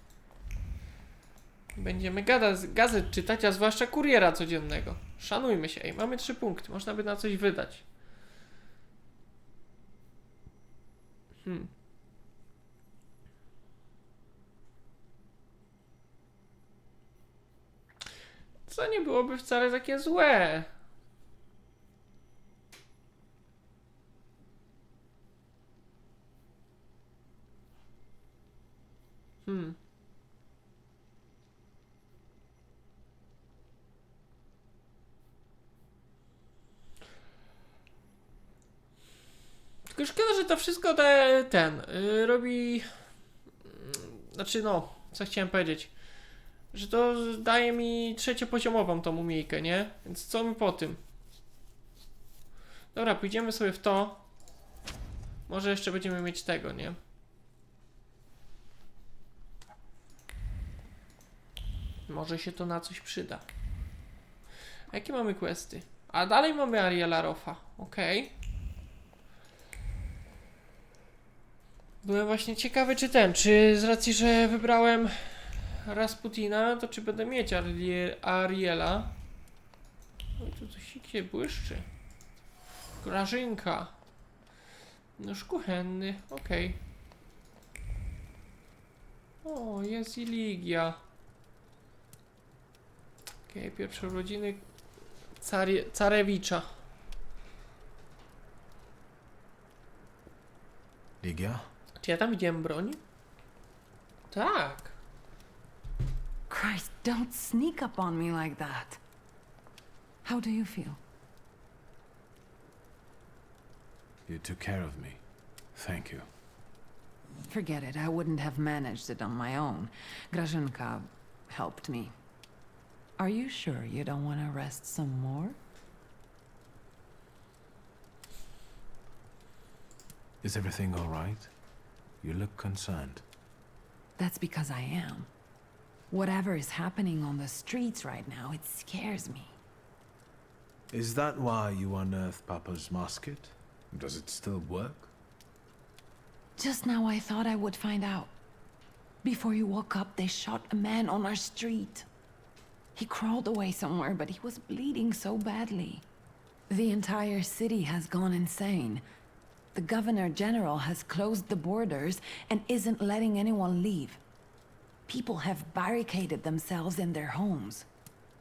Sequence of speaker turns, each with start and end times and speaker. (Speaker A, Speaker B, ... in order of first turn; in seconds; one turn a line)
Speaker A: 1.8-7.8
Speaker A: 18.7-20.7
Speaker A: 29.4-29.8
Speaker A: 39.9-42.9
Speaker A: 43.6-45.9
Speaker A: 46.7-51.0
Speaker A: 52.9-54.2
Speaker A: 55.5-57.0
Speaker A: 62.1-63.4
Speaker A: 64.9-68.3
Speaker A: 72.0-79.1
Speaker A: 80.4-81.8
Speaker A: 83.0-83.9
Speaker A: 85.2-86.8
Speaker A: 89.4-91.0
Speaker A: 93.5-94.6
Speaker A: 95.4-96.7
Speaker B: 101.2-101.7
Speaker A: 102.0-103.0
Speaker A: 104.3-104.9
Speaker C: 106.5-109.0
Speaker C: 110.2-111.0
Speaker B: 114.3-115.2
Speaker B: 115.8-116.2
Speaker C: 117.5-122.1
Speaker C: 123.2-125.6
Speaker B: 130.4-131.5
Speaker B: 132.2-133.2
Speaker C: 134.2-135.3
Speaker C: 136.1-139.5
Speaker B: 140.9-145.1
Speaker C: 146.6-148.3
Speaker C: 149.2-152.1
Speaker C: 152.9-156.0
Speaker C: 156.7-159.0
Speaker C: 159.7-164.2
Speaker C: 165.1-167.8